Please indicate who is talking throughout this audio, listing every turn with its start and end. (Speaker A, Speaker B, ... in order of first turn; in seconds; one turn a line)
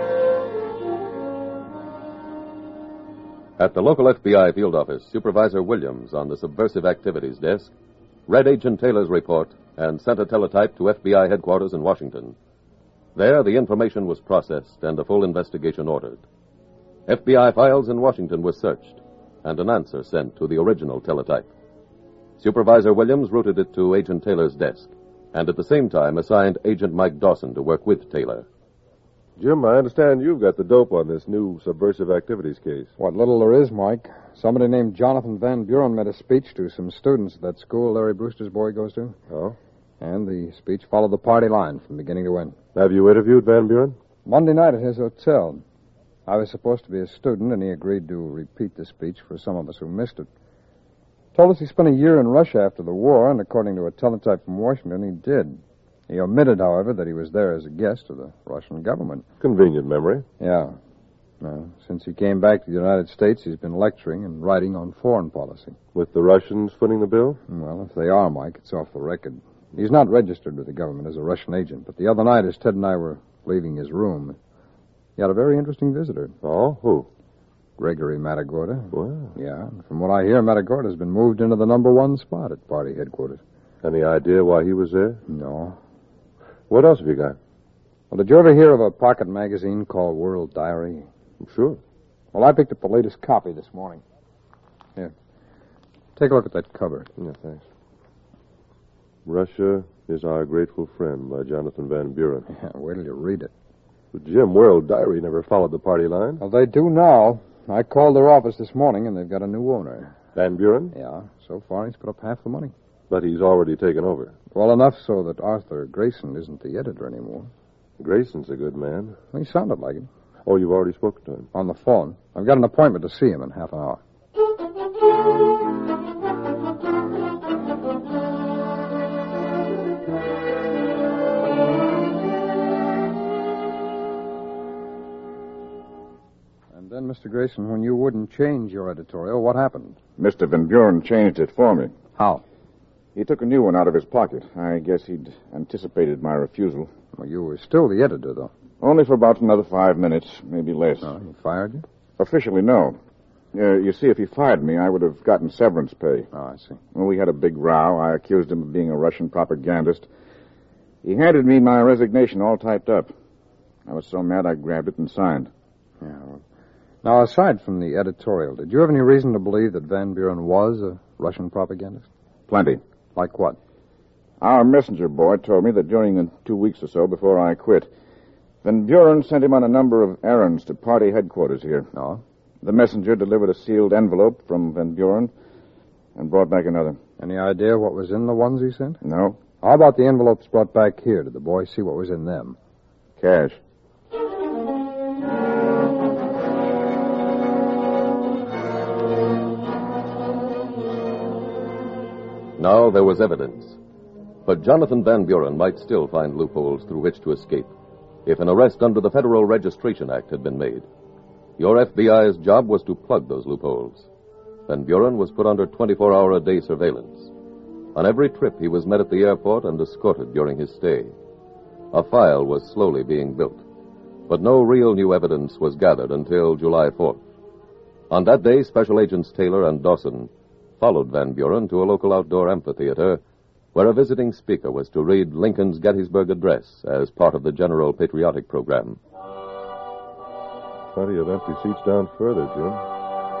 Speaker A: 3.6-7.7
Speaker A: 8.3-12.3
Speaker A: 13.1-16.2
Speaker A: 17.1-21.5
Speaker A: 22.4-28.4
Speaker B: 29.4-32.9
Speaker C: 33.0-39.1
Speaker B: 39.3-39.5
Speaker C: 40.0-42.6
Speaker B: 42.7-44.0
Speaker C: 44.2-45.6
Speaker C: 46.3-50.3
Speaker C: 51.3-59.2
Speaker B: 59.4-60.2
Speaker C: 60.4-60.8
Speaker C: 61.4-65.8
Speaker B: 65.9-67.4
Speaker C: 67.5-74.4
Speaker C: 75.2-76.3
Speaker B: 76.4-77.1
Speaker C: 77.8-83.4
Speaker B: 78.9-79.3
Speaker B: 83.8-85.2
Speaker C: 85.3-85.8
Speaker B: 86.7-87.4
Speaker C: 88.1-91.1
Speaker B: 91.4-91.8
Speaker C: 92.3-94.0
Speaker C: 96.2-97.1
Speaker B: 97.2-97.6
Speaker B: 99.2-102.5
Speaker C: 102.5-103.5
Speaker B: 104.1-106.4
Speaker C: 106.4-110.2
Speaker B: 110.3-110.9
Speaker C: 110.9-112.7
Speaker B: 113.1-114.3
Speaker C: 114.5-117.5
Speaker B: 118.0-119.2
Speaker C: 119.3-120.1
Speaker B: 120.5-121.5
Speaker C: 121.5-124.0
Speaker C: 136.7-140.0
Speaker D: 140.2-141.9
Speaker C: 142.2-142.4
Speaker D: 143.2-146.9
Speaker C: 147.1-148.5
Speaker D: 148.8-151.1
Speaker C: 151.0-151.8
Speaker D: 152.2-153.0
Speaker D: 153.5-156.3
Speaker C: 156.3-156.8
Speaker D: 156.9-160.1
Speaker D: 161.0-163.1
Speaker D: 163.9-165.5
Speaker C: 166.0-166.4
Speaker C: 167.0-172.1
Speaker D: 172.5-172.8
Speaker C: 173.1-173.6
Speaker D: 174.4-177.9
Speaker D: 178.6-181.9
Speaker C: 181.9-182.2
Speaker D: 182.6-185.3
Speaker D: 186.2-187.0
Speaker C: 187.2-189.0
Speaker D: 189.0-189.4
Speaker C: 189.6-192.6
Speaker D: 193.2-193.6
Speaker A: 202.6-203.8
Speaker A: 204.4-207.7
Speaker A: 208.2-210.8
Speaker A: 211.6-214.1
Speaker A: 214.7-217.3
Speaker A: 217.9-221.1
Speaker A: 221.9-223.6
Speaker A: 224.3-227.2
Speaker A: 228.1-233.2
Speaker A: 233.7-239.0
Speaker B: 240.9-242.8